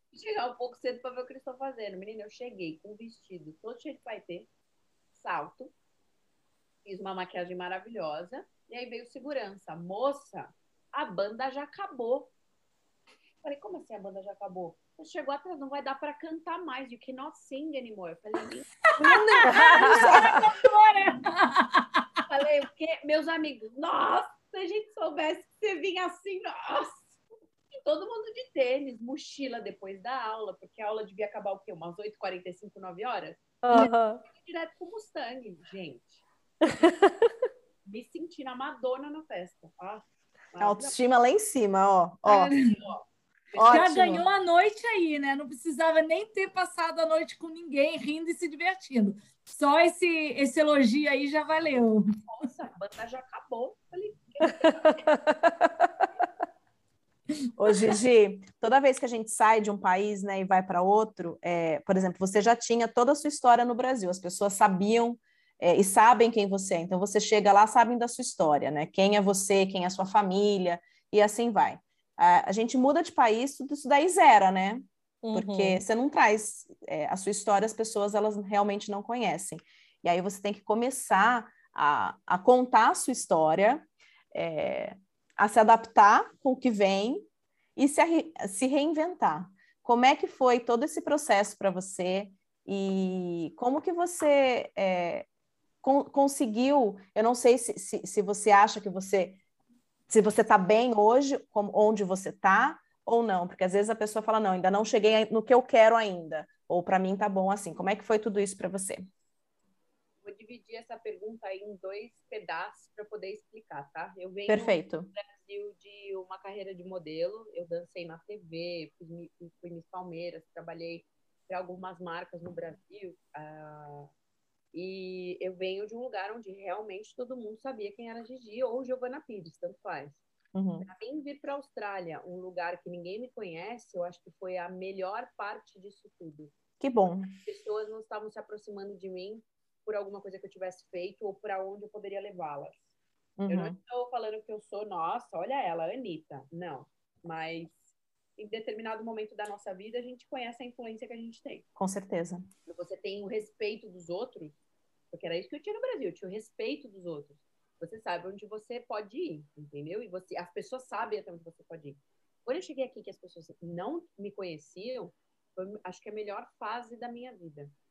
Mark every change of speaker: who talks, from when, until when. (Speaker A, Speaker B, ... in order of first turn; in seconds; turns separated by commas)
Speaker A: 0.1-4.5, Speaker A: 5.1-5.7, Speaker A: 6.8-12.3, Speaker A: 13.4-18.8, Speaker B: 19.0-20.5, Speaker C: 19.0-22.0, Speaker A: 22.3-27.1, Speaker A: 27.8-33.4, Speaker D: 33.6-34.2, Speaker A: 34.2-36.2, Speaker D: 36.6-37.3, Speaker A: 37.9-41.0, Speaker B: 40.6-42.6, Speaker A: 42.3-43.8, Speaker C: 42.5-42.8, Speaker B: 43.5-44.2, Speaker C: 43.7-52.1, Speaker A: 52.3-55.0, Speaker D: 54.5-55.9, Speaker B: 57.6-95.3, Speaker D: 75.2-75.8, Speaker B: 95.8-99.4, Speaker B: 100.1-109.1, Speaker A: 110.2-124.1, Speaker B: 114.5-115.1, Speaker A: 124.7-130.2, Speaker B: 130.5-130.9, Speaker A: 130.8-136.5, Speaker B: 136.8-137.3, Speaker A: 137.4-142.8, Speaker B: 143.4-143.8, Speaker A: 143.5-151.7, Speaker B: 151.8-152.5, Speaker A: 152.7-154.6, Speaker A: 155.1-167.7